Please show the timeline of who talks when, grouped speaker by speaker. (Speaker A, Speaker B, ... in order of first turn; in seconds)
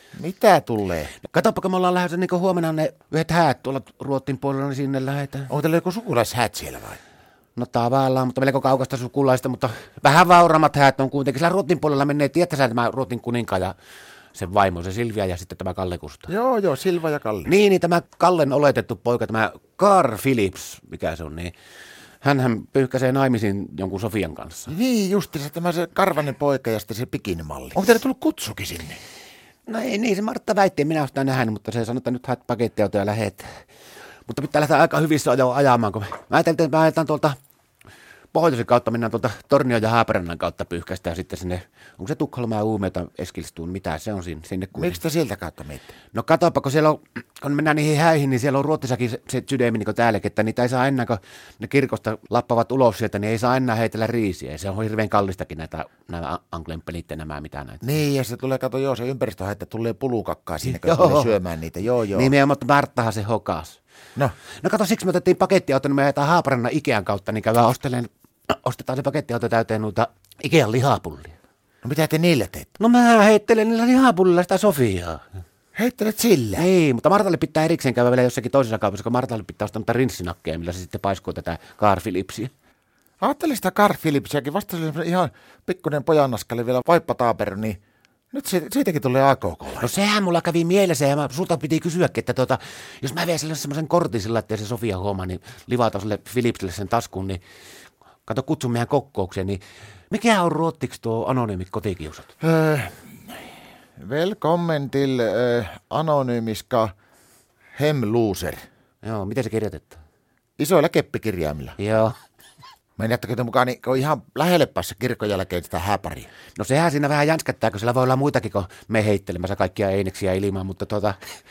Speaker A: 0.1-1.1, 5.5-7.0, 16.3-17.5, 24.7-29.0, 44.8-45.9, 57.8-62.3, 71.8-72.7, 75.7-76.7, 83.2-87.8, 88.3-89.9, 102.4-103.4, 104.0-106.9, 107.8-108.6, 110.6-111.8, 113.0-116.3
Speaker B: 1.2-5.5, 7.5-13.7, 14.3-16.3, 17.5-21.5, 22.2-24.7, 29.7-33.5, 34.3-37.4, 38.3-45.0, 46.1-57.8, 60.6-61.4, 62.1-63.8, 64.6-71.3, 72.8-75.2, 76.6-82.5, 89.8-97.4, 98.3-99.6, 100.1-102.3, 109.0-110.0, 111.8-112.2, 116.6-121.2